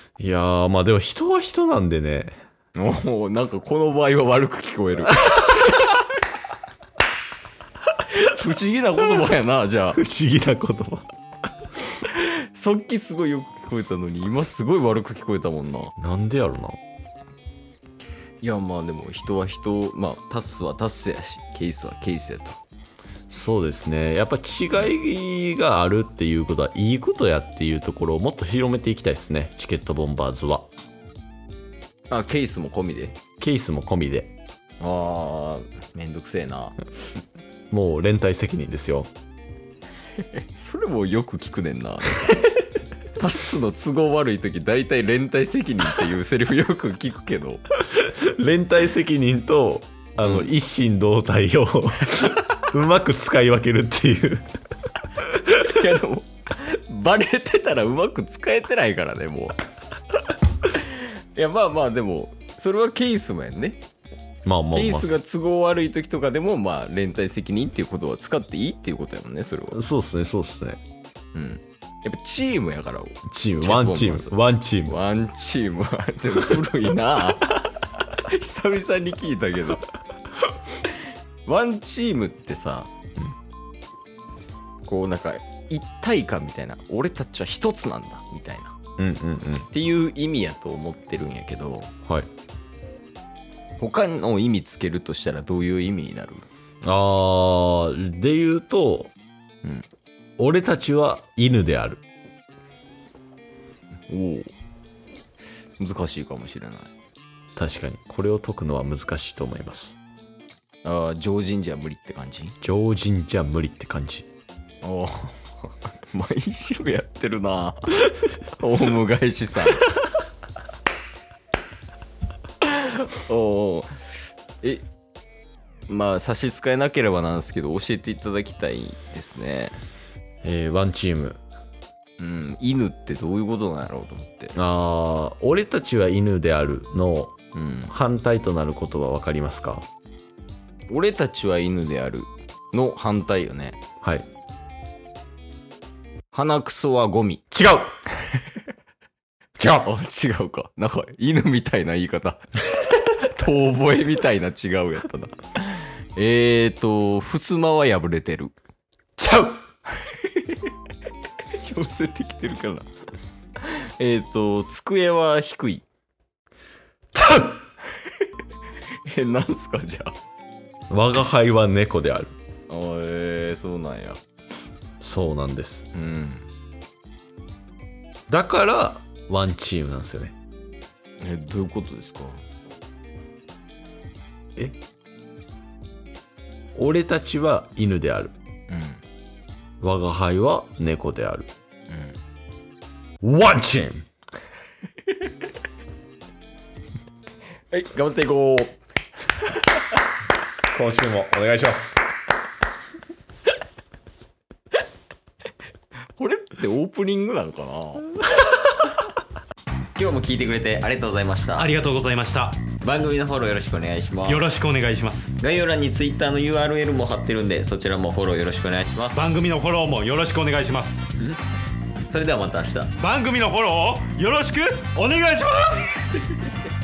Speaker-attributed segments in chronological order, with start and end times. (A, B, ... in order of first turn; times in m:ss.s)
0:00.2-0:02.4 A
0:02.7-0:06.0 B
0:05.1-0:05.8 A
0:08.1-0:10.0 B
0:09.9-0:11.1 A
0:12.0-0:15.9 B
0:16.0-0:16.8 A
0:18.4-0:22.6 B
0:23.3-0:30.7 A
0:32.1-0:33.2 B
0:33.4-0:34.3 A
0:34.8-0:36.7 B
0:37.7-0:39.1 A
0:40.2-0:42.5 B
0:43.1-0:47.6 B
0:47.9-0:54.4 A
0:50.2-0:50.5 B
0:55.5-0:59.6 B
1:00.6-1:03.8 B
1:04.4-1:05.1 A
1:04.7-1:09.8 B
1:09.7-1:10.8 A
1:11.3-1:14.3 B
1:13.3-1:15.0 A
1:14.8-1:19.8 B
1:20.8-1:22.9 B
1:24.8-1:28.7 B
1:29.0-1:29.7 A
1:29.7-1:31.9 B
1:33.8-1:36.5 B
1:36.8-1:39.1 A
1:40.4-1:42.0 A
1:44.1-1:44.5 B
1:45.8-1:46.9 B
1:47.6-1:50.0 A
1:50.8-1:52.5 B
1:52.6-1:54.2 A
1:54.8-1:59.9 B
2:02.6-2:04.0 B
2:05.9-2:09.8 B
2:10.4-2:11.4 A
2:12.2-2:14.5 B
2:14.5-2:17.3 A
2:17.5-2:17.9 B
2:17.9-2:19.9 A
2:20.9-2:23.8 B
2:24.0-2:24.3 A
2:26.3-2:27.4 B
2:27.5-2:27.9 A
2:29.6-2:38.5 B
2:39.2-2:39.6 A
2:40.0-2:40.7 B
2:41.5-2:42.9 B
2:43.6-2:45.8 B
2:47.1-2:47.6 A
2:49.1-2:50.1 B
2:50.9-2:52.3 A
2:52.7-2:54.2 B
2:55.0-2:55.8 A
2:55.9-2:56.5 B
2:58.3-3:00.3 A
3:01.2-3:02.4 B
3:06.8-3:08.3 A
3:08.7-3:09.0 B
3:09.8-3:11.5 A
3:11.9-3:12.2 B
3:13.2-3:14.1 A
3:17.7-3:18.8 B
3:20.7-3:22.0 A
3:26.2-3:28.1 B
3:30.0-3:31.7 B
3:31.6-3:32.6 C
3:32.8-3:34.5 B
3:34.2-3:35.4 C
3:35.4-3:39.2 B
3:39.1-3:41.1 C
3:42.1-3:43.0 B
3:43.0-3:46.0 C